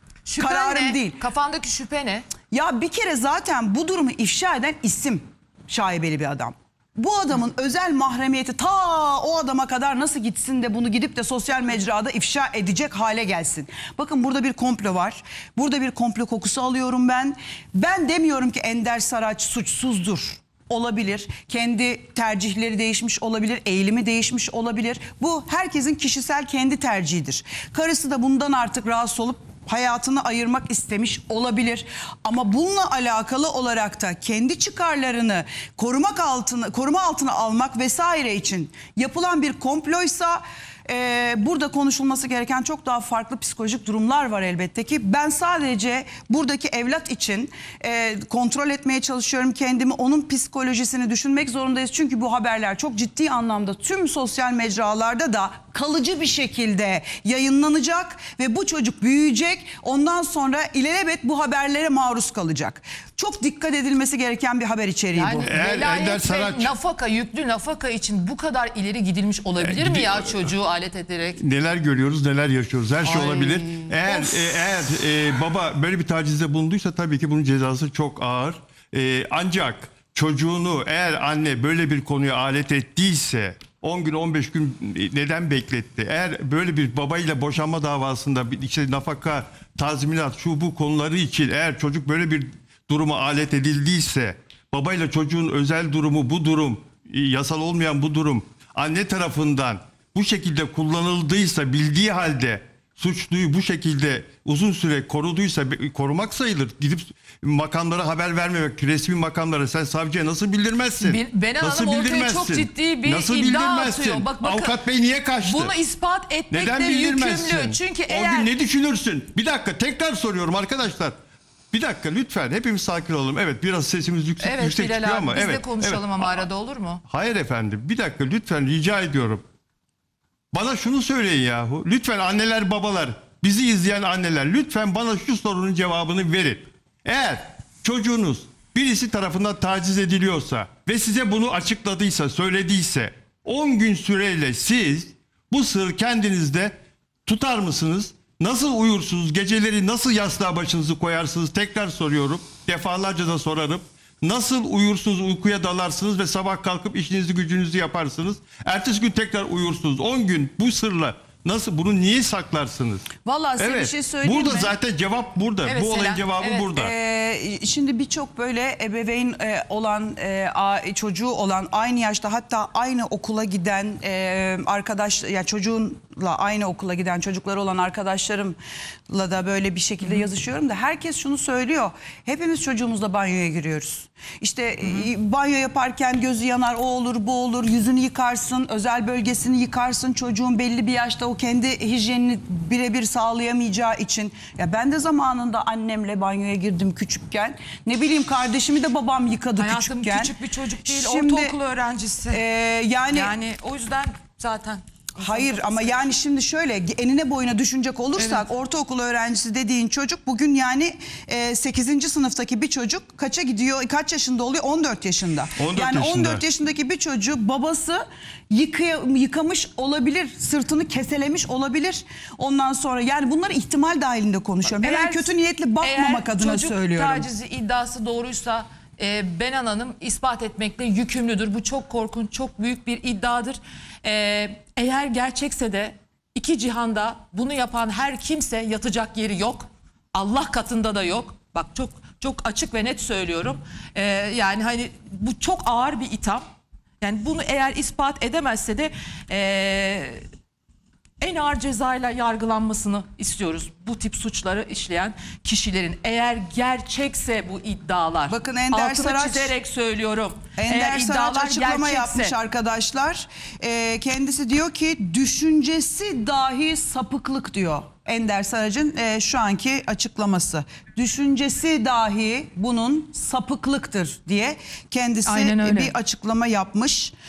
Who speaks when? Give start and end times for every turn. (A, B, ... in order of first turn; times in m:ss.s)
0:00.3-0:02.3 A
0:00.4-0:01.2 B
0:02.5-1:05.5 B
1:05.1-1:11.4 A
1:05.4-1:06.7 C
1:09.6-1:10.5 C
1:11.4-1:55.7 C
1:13.0-1:14.5 A
1:51.0-1:54.8 A
1:55.4-1:58.5 A
1:56.5-2:01.2 C
2:01.7-2:06.5 C
2:04.4-2:07.0 A
2:07.1-2:09.4 C
2:10.5-2:46.9 C
2:43.2-2:44.7 B
2:45.6-2:46.7 A
2:46.7-2:58.6 B
2:59.1-3:20.3 B
3:04.8-3:05.1 A
3:19.6-3:22.4 A
3:20.9-3:21.6 B
3:22.3-3:23.4 B
3:23.1-3:26.2 A
3:25.2-3:47.3 B
3:28.2-3:28.4 A
3:35.6-3:36.4 C
3:44.8-4:06.4 A
4:07.0-4:10.2 A
4:11.2-4:22.4 A
4:18.3-4:19.5 B
4:20.6-4:37.1 B
4:35.2-4:35.9 A